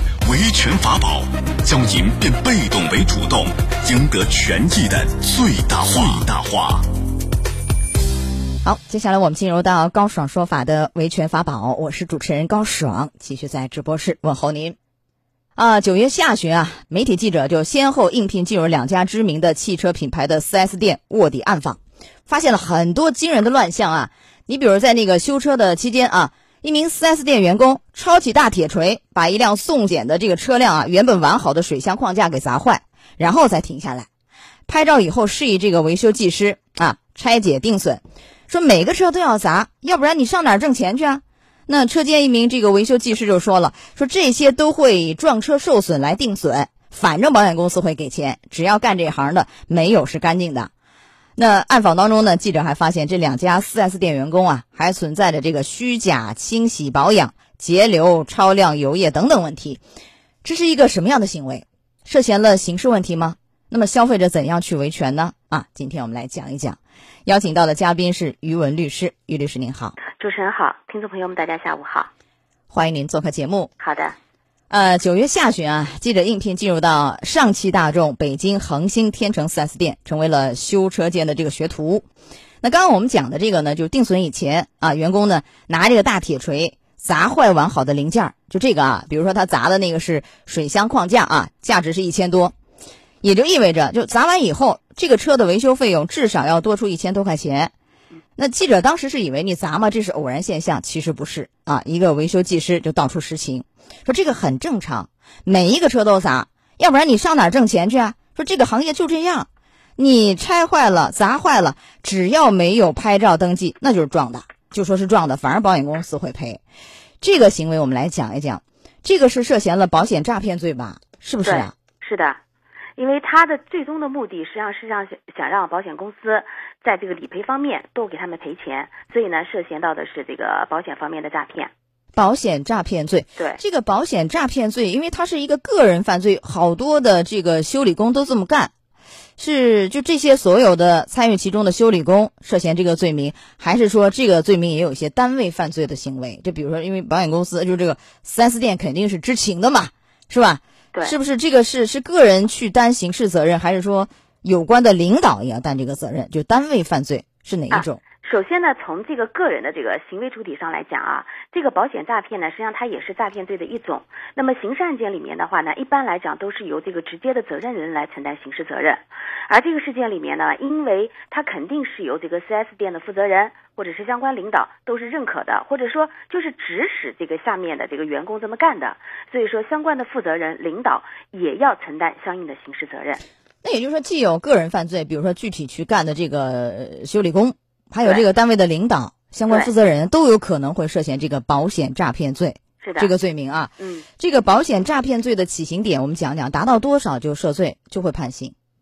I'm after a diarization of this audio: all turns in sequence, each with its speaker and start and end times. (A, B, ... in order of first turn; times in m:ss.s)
0:00.2-0:06.8 A
0:08.6-0:14.8 B
0:15.6-0:34.1 B
0:34.7-0:50.7 B
0:51.4-0:59.8 B
1:00.4-1:10.0 B
1:10.1-1:12.1 C
1:12.7-1:13.7 B
1:13.8-1:14.2 C
1:14.7-1:22.0 B
1:22.6-1:32.5 B
1:33.2-1:37.7 B
1:38.4-1:56.6 B
1:57.2-2:01.7 B
2:01.4-2:02.4 C
2:03.0-2:11.7 C
2:12.2-2:18.7 B
2:19.4-2:38.0 B
2:37.7-3:03.2 C
3:03.6-3:18.6 B
3:12.8-3:13.1 C
3:13.8-3:14.1 C